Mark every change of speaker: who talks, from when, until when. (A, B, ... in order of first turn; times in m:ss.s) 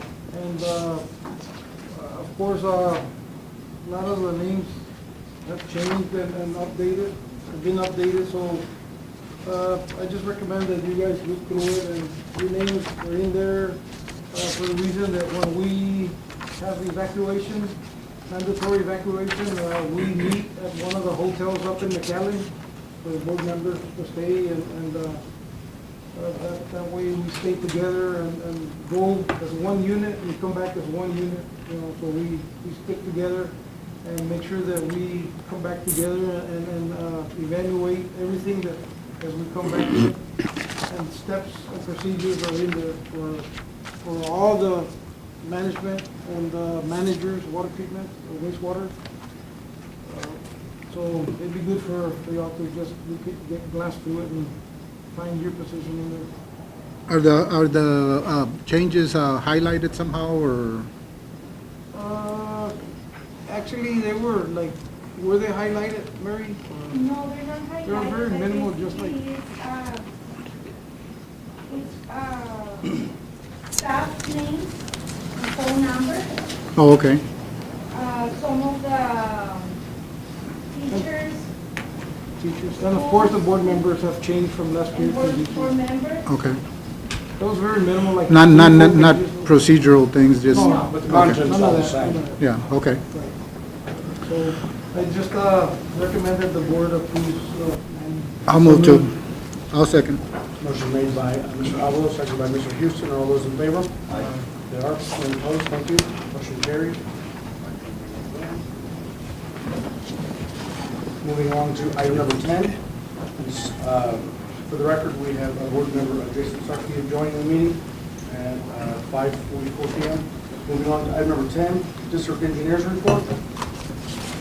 0:00.3-0:01.1 A
0:01.9-0:03.1 A
0:03.8-0:04.8 A
0:05.4-0:08.7 A
0:09.4-0:25.2 A
0:26.1-0:40.2 A
0:40.9-0:49.0 A
0:50.0-0:54.6 A
0:55.1-0:56.3 A
0:57.1-1:00.9 B
1:01.9-1:02.8 A
1:03.4-1:07.0 A
1:06.9-1:10.1 C
1:07.8-1:09.3 A
1:11.7-1:13.1 C
1:13.7-1:16.4 C
1:16.8-1:17.2 B
1:17.9-1:19.8 C
1:20.7-1:21.5 C
1:20.9-1:21.1 A
1:22.4-1:25.8 A
1:22.8-1:23.8 C
1:24.9-1:26.3 C
1:26.3-1:26.6 B
1:27.4-1:29.6 A
1:28.3-1:31.7 B
1:30.5-1:33.4 A
1:30.8-1:32.2 D
1:32.2-1:33.0 B
1:34.2-1:39.1 A
1:38.5-1:39.2 B
1:39.7-1:40.2 B
1:40.6-1:47.0 D
1:47.6-1:48.6 D
1:51.2-1:52.8 D
1:53.4-2:03.3 D